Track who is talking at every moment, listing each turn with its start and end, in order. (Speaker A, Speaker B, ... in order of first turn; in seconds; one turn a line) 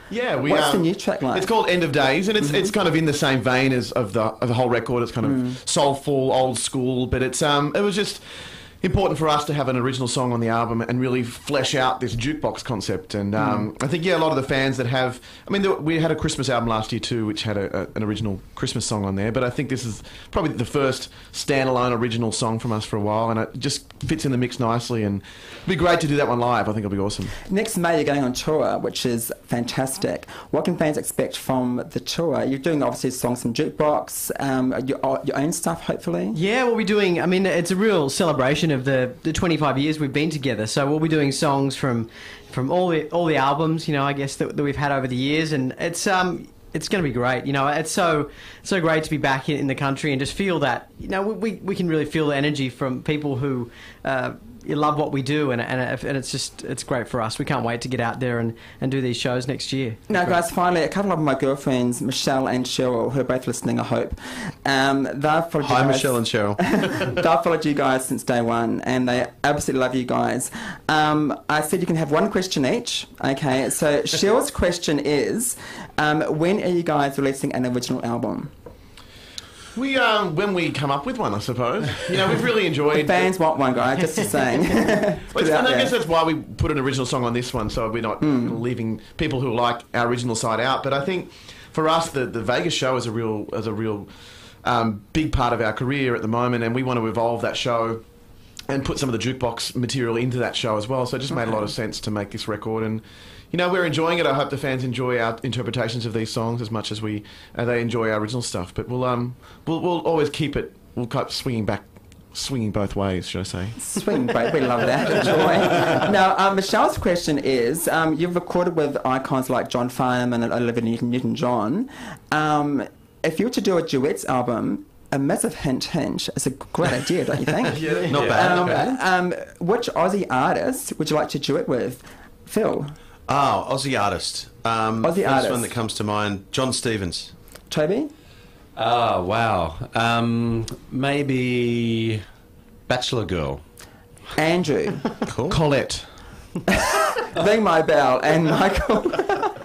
Speaker A: 0.1-27.4
Speaker B: 0.4-1.5
Speaker B: 5.2-5.6
Speaker B: 13.4-13.7
Speaker B: 27.4-36.4
Speaker C: 36.3-60.0
Speaker B: 60.1-78.5
Speaker D: 65.6-66.6
Speaker A: 79.7-83.3
Speaker B: 82.9-86.0
Speaker A: 85.3-113.9
Speaker B: 88.2-88.6
Speaker B: 113.8-132.9
Speaker A: 127.7-128.7
Speaker D: 128.1-128.8
Speaker E: 128.7-129.0
Speaker D: 133.3-137.3
Speaker B: 135.0-135.7
Speaker B: 137.7-138.1
Speaker E: 138.8-142.2
Speaker E: 142.9-143.6
Speaker B: 144.3-145.1
Speaker D: 145.3-145.6
Speaker A: 145.5-146.1
Speaker B: 146.7-149.5